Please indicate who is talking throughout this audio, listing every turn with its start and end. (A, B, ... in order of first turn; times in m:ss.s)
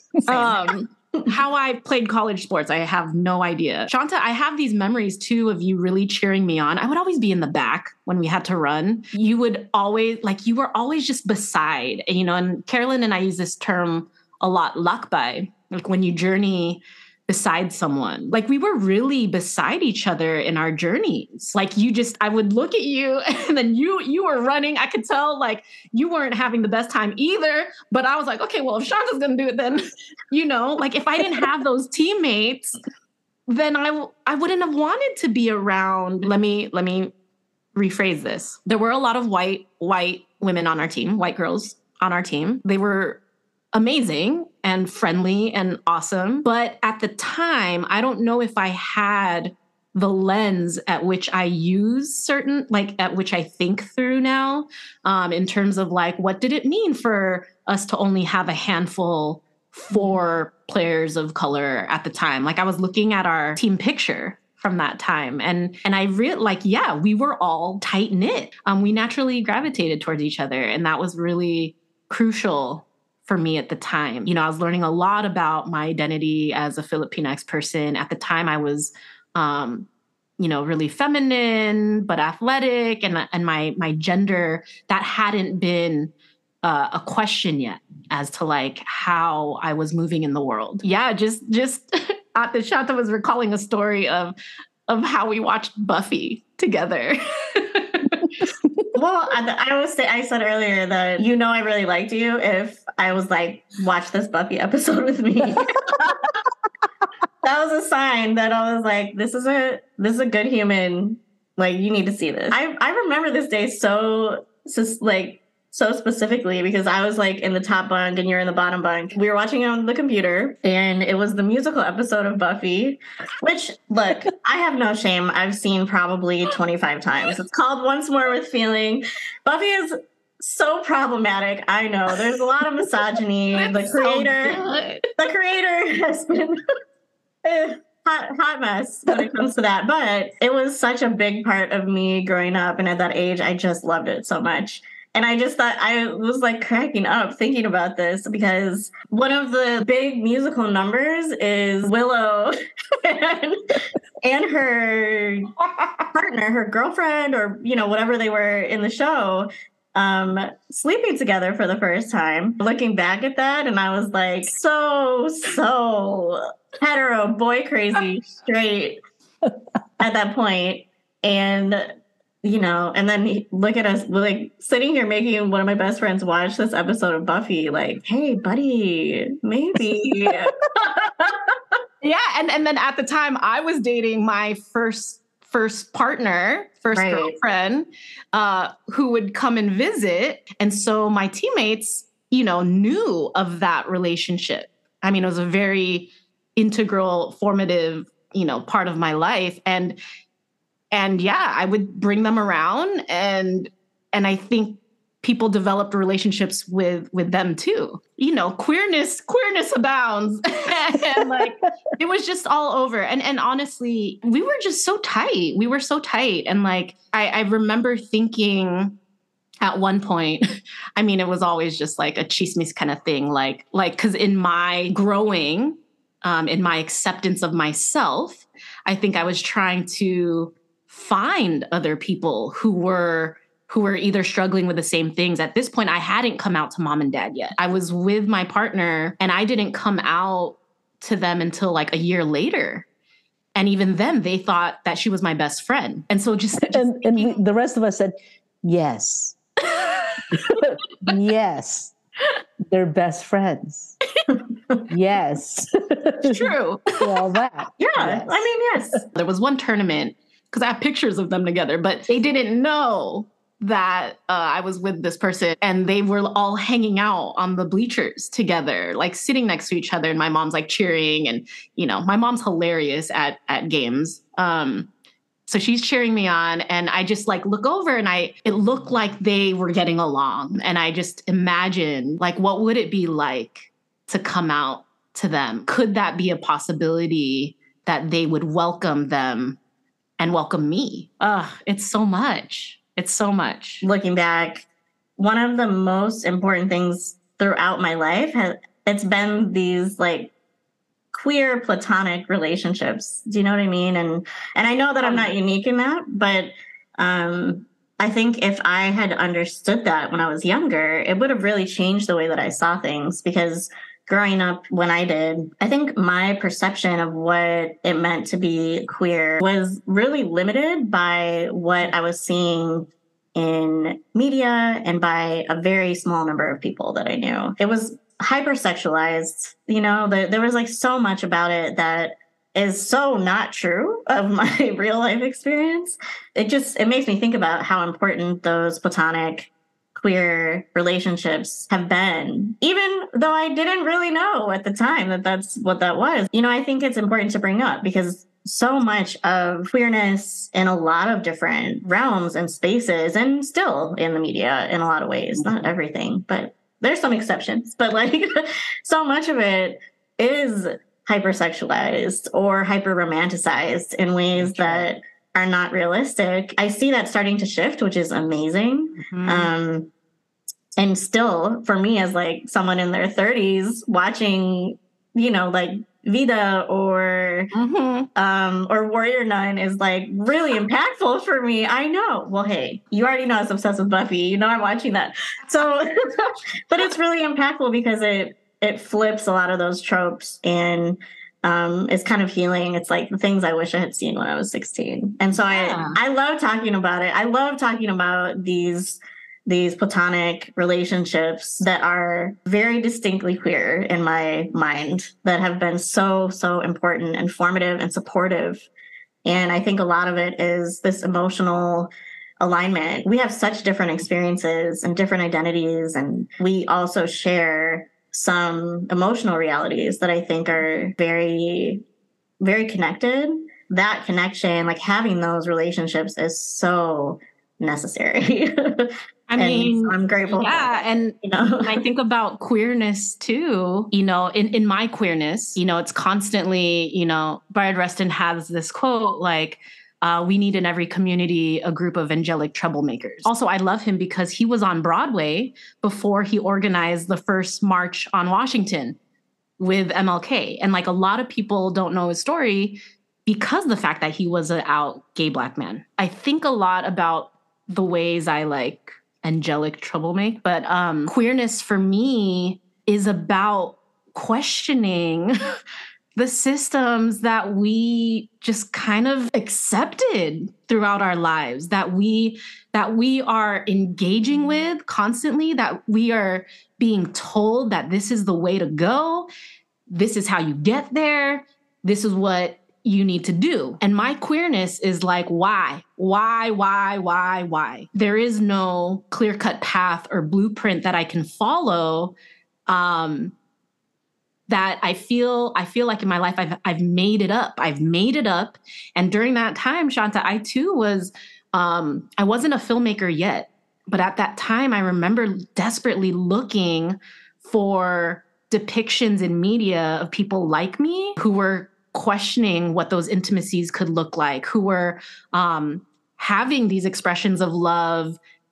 0:00.3-0:01.3 A
0:00.3-0:32.8 B
0:33.5-0:37.1 B
0:37.7-0:43.2 B
0:43.7-1:19.9 B
1:20.4-1:34.3 B
1:34.9-1:38.4 B
1:38.9-1:46.2 A
1:47.4-2:14.6 A
2:13.5-2:15.1 B
2:15.2-2:16.6 A
2:17.4-2:35.5 A
2:36.1-2:49.0 A
2:50.0-2:51.9 A
2:52.4-3:01.6 A
3:02.0-3:20.0 B
3:06.9-3:07.4 A
3:20.9-3:39.0 B
3:39.6-3:40.4 B
3:41.0-4:02.9 B
4:03.5-4:07.4 B
4:06.6-4:09.4 C
4:09.6-4:10.6 B
4:10.3-4:11.9 C
4:12.7-4:14.0 C
4:14.9-4:18.4 C
4:16.2-4:17.2 B
4:17.9-4:19.0 A
4:19.1-4:34.9 B
4:35.5-4:49.6 B
4:50.2-4:53.8 B
4:53.8-4:54.7 A
4:55.2-5:00.3 A
5:01.1-6:09.9 A
5:05.0-5:05.3 B
6:09.1-6:09.5 B
6:10.8-6:17.5 A
6:17.5-6:18.1 B
6:18.1-6:48.7 A
6:35.5-6:36.0 B
6:49.2-7:01.8 A
7:02.4-7:11.8 A
7:09.3-7:29.0 B
7:29.6-7:45.6 B
7:46.1-7:59.3 B
7:59.9-8:12.1 B
8:12.7-8:13.3 B
8:14.5-8:38.2 B